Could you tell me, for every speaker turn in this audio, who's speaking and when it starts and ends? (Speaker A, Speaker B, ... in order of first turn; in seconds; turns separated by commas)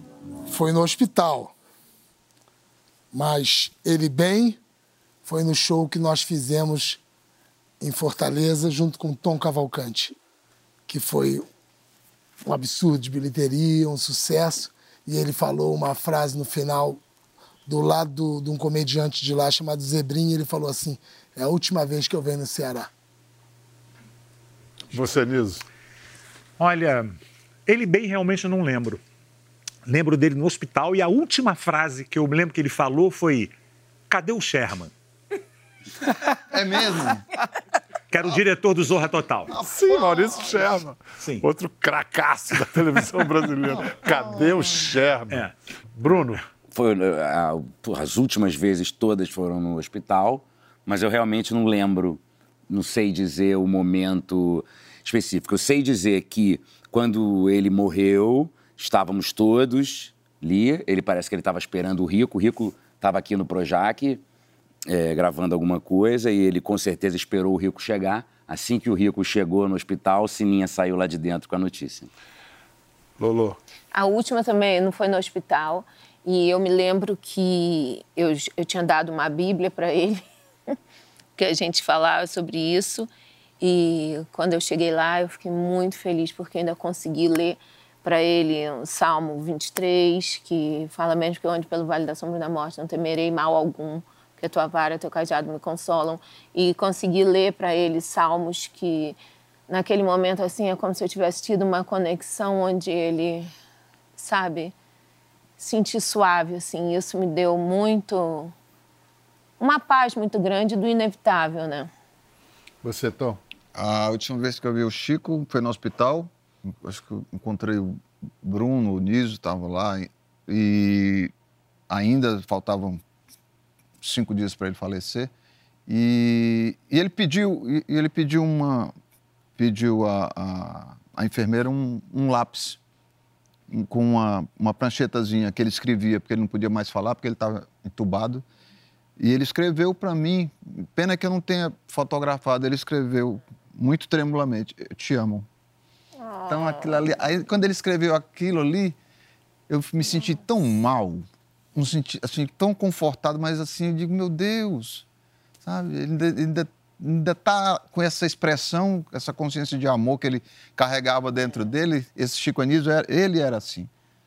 Speaker A: 0.5-1.5, Speaker A: 3.1-4.6, Speaker A: 5.2-7.0, Speaker A: 7.8-10.2, Speaker A: 10.9-11.5, Speaker A: 12.4-17.0, Speaker A: 17.7-22.9, Speaker B: 24.9-25.6, Speaker C: 26.6-29.0, Speaker C: 29.9-33.5, Speaker C: 34.1-34.9, Speaker D: 36.5-37.2, Speaker C: 38.1-39.6, Speaker D: 39.5-40.7, Speaker B: 39.6-46.4, Speaker C: 41.2-41.5, Speaker D: 43.7-44.5, Speaker E: 46.7-64.2, Speaker E: 64.9-72.1, Speaker B: 73.2-73.6, Speaker F: 73.9-80.3, Speaker F: 81.4-83.1, Speaker F: 83.6-99.2, Speaker F: 99.7-103.5, Speaker F: 104.2-104.7, Speaker F: 105.6-108.5, Speaker F: 109.6-111.9, Speaker B: 112.8-113.4, Speaker D: 113.8-121.3, Speaker D: 121.9-123.0, Speaker D: 124.0-125.3, Speaker D: 125.9-128.9, Speaker D: 129.6-132.8, Speaker D: 133.7-138.4, Speaker D: 139.2-145.5, Speaker F: 146.2-147.0, Speaker D: 146.5-149.0, Speaker D: 149.7-155.1, Speaker D: 155.6-163.9